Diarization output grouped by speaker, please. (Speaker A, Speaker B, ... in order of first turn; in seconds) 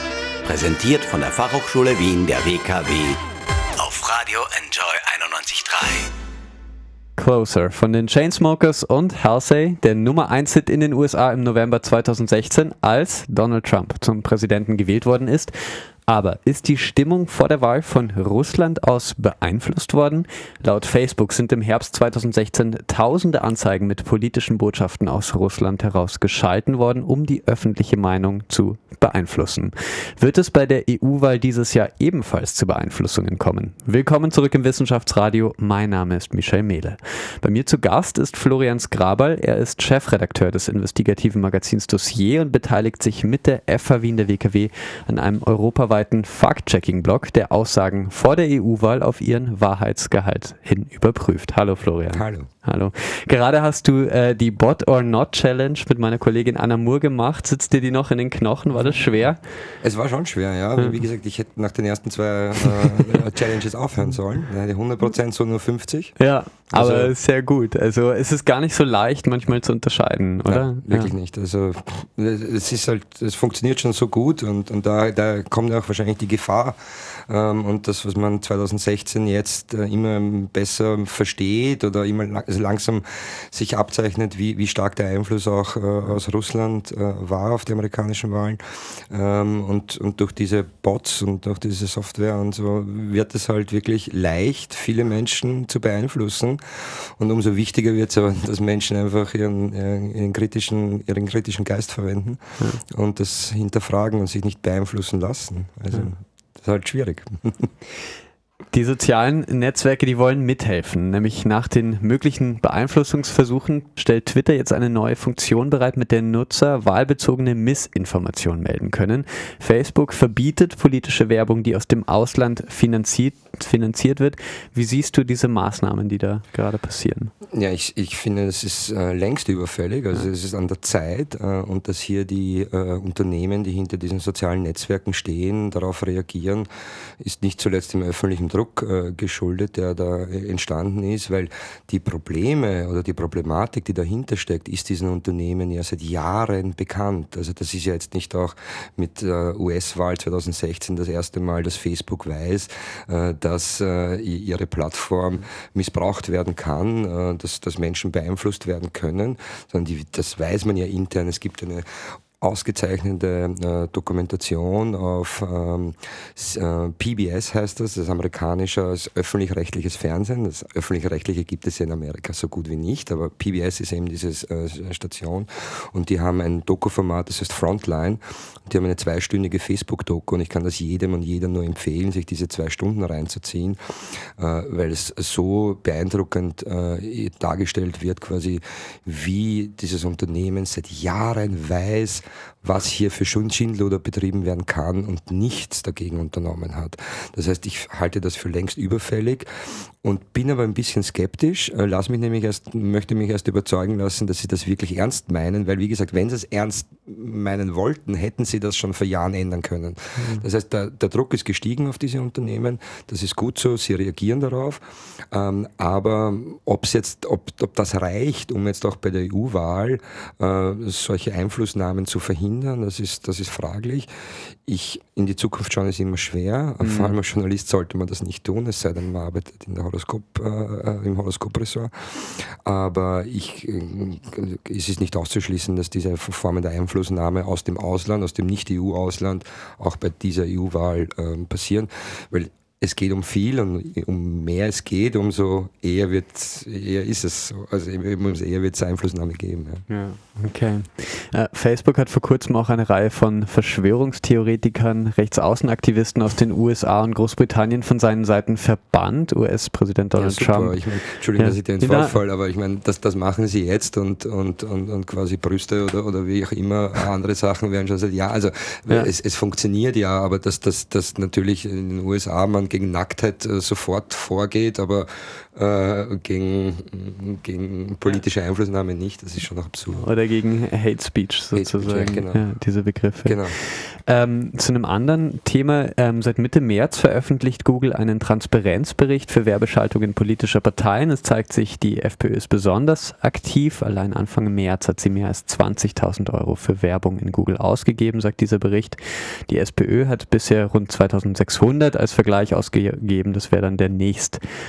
Speaker A: 0.4-3.2, 3.8-6.1
Speaker B: 7.2-15.6, 16.1-59.4, 66.2-71.1, 108.7-127.3, 210.2-210.4, 226.8-227.1, 249.9-260.8, 261.4-262.2, 280.0-304.4
Speaker C: 52.1-52.5, 59.8-66.2, 66.7-67.1, 70.5-107.7, 127.5-136.7, 137.2-161.9, 162.4-199.5, 200.0-224.1, 224.6-249.8, 260.1-280.1, 281.5-282.4, 283.2-283.6